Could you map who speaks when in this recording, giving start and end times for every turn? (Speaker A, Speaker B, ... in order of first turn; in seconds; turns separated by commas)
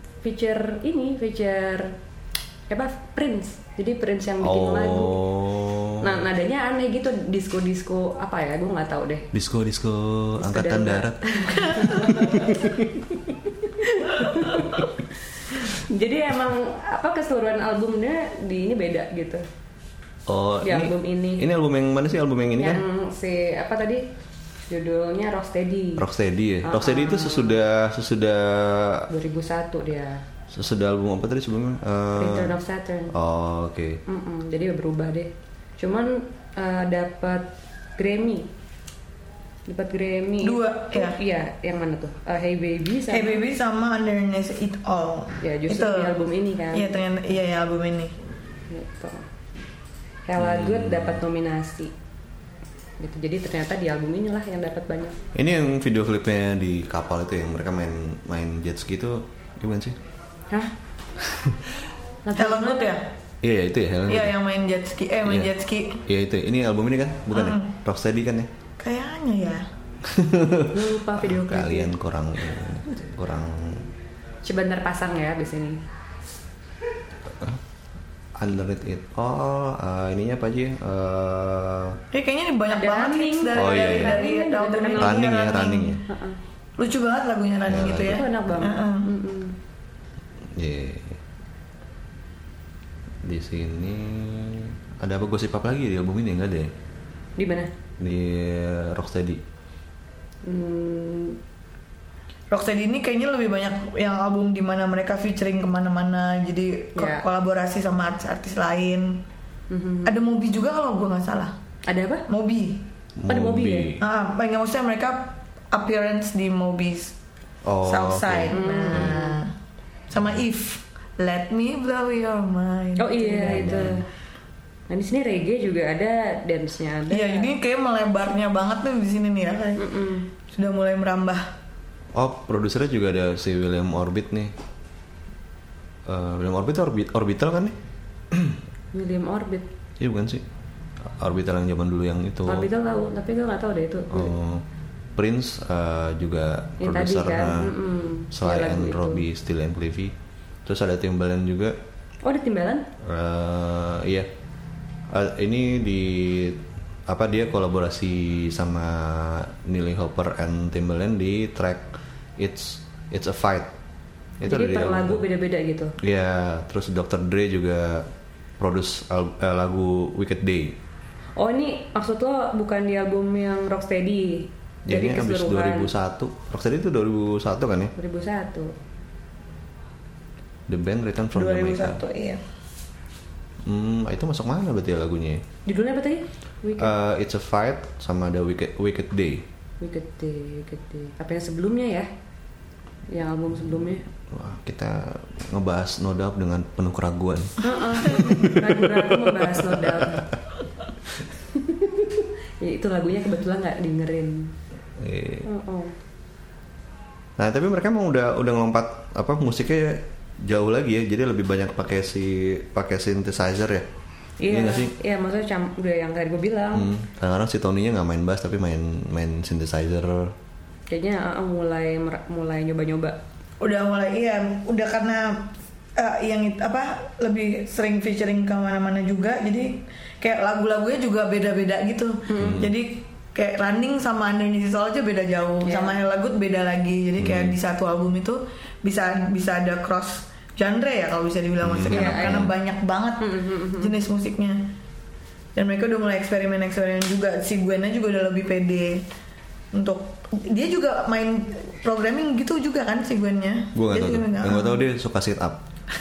Speaker A: 0.2-2.0, Speaker A: 2.7-5.2, Speaker B: 4.4-6.2, Speaker A: 6.0-9.3, Speaker B: 9.3-13.1, Speaker A: 10.4-12.9, Speaker A: 13.6-19.4, Speaker B: 20.3-22.8, Speaker A: 20.6-21.5, Speaker A: 22.6-24.1, Speaker A: 24.7-26.0, Speaker B: 26.0-29.1, Speaker A: 26.6-27.6, Speaker A: 29.1-30.2, Speaker B: 30.5-32.5, Speaker A: 32.2-33.1, Speaker B: 33.1-34.0, Speaker A: 34.1-38.5, Speaker A: 39.7-43.4, Speaker C: 40.4-41.2, Speaker C: 43.1-46.2, Speaker A: 45.4-47.0, Speaker C: 46.7-48.1, Speaker A: 48.7-49.3, Speaker A: 50.3-51.9, Speaker B: 50.4-51.2, Speaker A: 53.0-55.2, Speaker B: 55.4-60.0, Speaker A: 62.2-63.0, Speaker C: 62.4-63.1, Speaker B: 63.4-64.4, Speaker C: 64.1-66.0, Speaker B: 66.0-68.5, Speaker C: 67.3-67.7, Speaker C: 68.8-69.7, Speaker B: 70.0-73.9, Speaker A: 70.7-72.0, Speaker A: 74.4-75.8, Speaker B: 78.4-82.0, Speaker C: 82.1-86.0, Speaker A: 82.7-86.4, Speaker B: 83.5-84.2, Speaker B: 85.0-86.0, Speaker C: 86.8-89.1, Speaker B: 87.7-88.2, Speaker A: 87.9-89.6, Speaker B: 90.6-91.2, Speaker B: 93.2-96.7, Speaker A: 97.4-97.7, Speaker B: 98.0-99.4, Speaker A: 100.4-101.4, Speaker C: 102.5-109.2, Speaker A: 107.0-107.2, Speaker A: 109.7-110.2, Speaker C: 110.0-111.5, Speaker A: 111.9-112.3, Speaker C: 112.3-112.9, Speaker B: 113.2-114.0, Speaker A: 113.3-113.9, Speaker C: 114.0-117.2, Speaker B: 117.7-119.2, Speaker C: 117.8-119.5, Speaker A: 118.5-119.5, Speaker C: 120.1-124.0, Speaker A: 123.0-124.1, Speaker B: 123.5-124.0, Speaker A: 124.9-127.5, Speaker C: 127.1-131.5, Speaker A: 129.8-130.3, Speaker B: 132.2-134.5, Speaker B: 136.1-137.8, Speaker B: 138.3-138.6, Speaker A: 138.9-139.7, Speaker B: 140.0-140.4, Speaker B: 141.1-142.7, Speaker A: 142.5-144.3, Speaker B: 144.1-144.6, Speaker B: 145.2-147.7, Speaker A: 146.8-149.2, Speaker B: 148.3-150.1, Speaker B: 150.7-151.8, Speaker A: 152.2-152.9, Speaker B: 153.0-154.3, Speaker B: 155.1-163.7, Speaker B: 164.4-165.2, Speaker A: 164.4-166.0, Speaker B: 166.0-168.1, Speaker B: 168.6-170.8, Speaker A: 171.4-175.9, Speaker B: 174.9-177.9, Speaker A: 178.0-178.7, Speaker B: 180.7-182.0, Speaker C: 181.3-182.4, Speaker B: 183.7-185.4, Speaker A: 185.7-186.9, Speaker B: 186.8-189.4, Speaker A: 189.8-192.1, Speaker A: 193.1-194.1, Speaker B: 194.3-200.0, Speaker A: 197.6-200.3, Speaker A: 201.5-204.6, Speaker B: 205.0-205.5, Speaker A: 205.5-205.9, Speaker B: 207.4-213.9, Speaker A: 214.4-216.9, Speaker B: 214.5-214.9, Speaker B: 216.7-220.3, Speaker A: 220.9-223.2, Speaker C: 223.6-244.7, Speaker A: 232.3-232.7, Speaker B: 232.4-232.7, Speaker A: 235.7-236.0, Speaker B: 237.2-237.6, Speaker B: 241.6-242.5, Speaker A: 241.9-242.5, Speaker A: 243.2-244.0, Speaker C: 245.6-249.1, Speaker C: 249.7-254.8, Speaker B: 253.8-255.6